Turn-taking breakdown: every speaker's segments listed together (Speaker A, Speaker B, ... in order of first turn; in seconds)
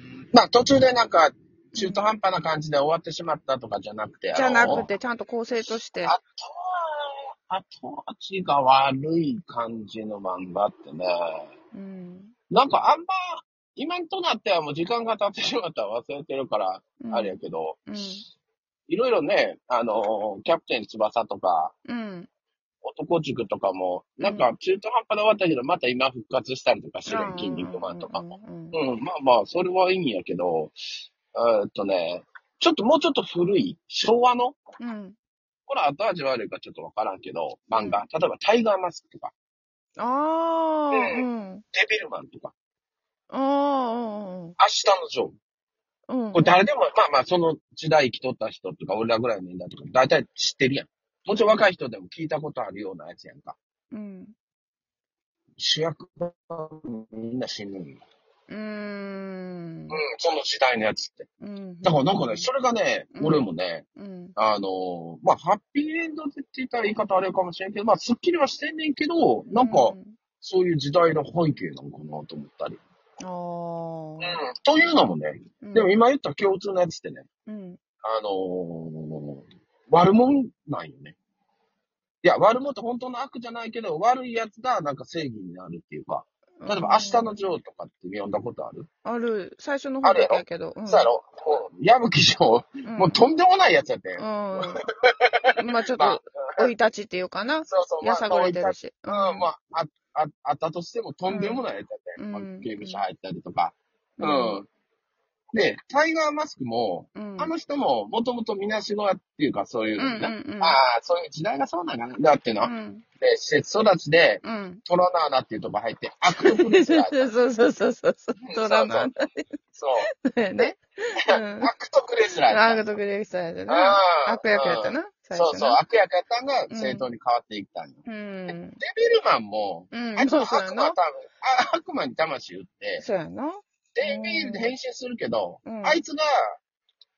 Speaker A: 0.3-4.9, 6.0-11.5, 12.5-18.0, 18.9-21.7, 22.8-30.8, 31.3-34.6, 35.7-39.3, 40.9-42.5, 44.6-45.3, 46.3-53.5, 55.6-58.0, 59.9-61.3, 61.8-63.8, 64.3-72.8, 74.2-77.3, 78.0-81.2, 82.2-88.9, 90.0-96.7, 97.7-104.7, 105.5-117.3, 118.4-119.1, 119.7-120.7, 121.2-122.8, 123.7-133.0, 133.9-136.6
Speaker B: 1.8-2.0, 4.3-6.1, 11.7-12.3, 17.0-17.4, 17.9-18.2, 21.9-22.3, 24.2-24.5, 27.1-28.8, 34.8-35.1, 37.7-38.0, 40.0-41.6, 43.3-44.6, 46.1-46.6, 53.9-54.3, 58.5-60.0, 61.4-62.5, 63.1-64.3, 69.5-70.2, 73.2-74.4, 75.6-75.9, 77.5-77.8, 86.6-87.4, 89.0-91.1, 92.8-93.3, 94.2-94.8, 95.6-99.5, 101.3-101.6, 102.2-103.0, 104.2-104.6, 107.2-107.5, 110.0-110.8, 112.6-113.0, 114.4-114.8, 116.3-121.7, 122.5-125.8, 126.7-127.1, 128.0-128.8, 129.9-131.0, 133.0-134.7, 135.6-136.0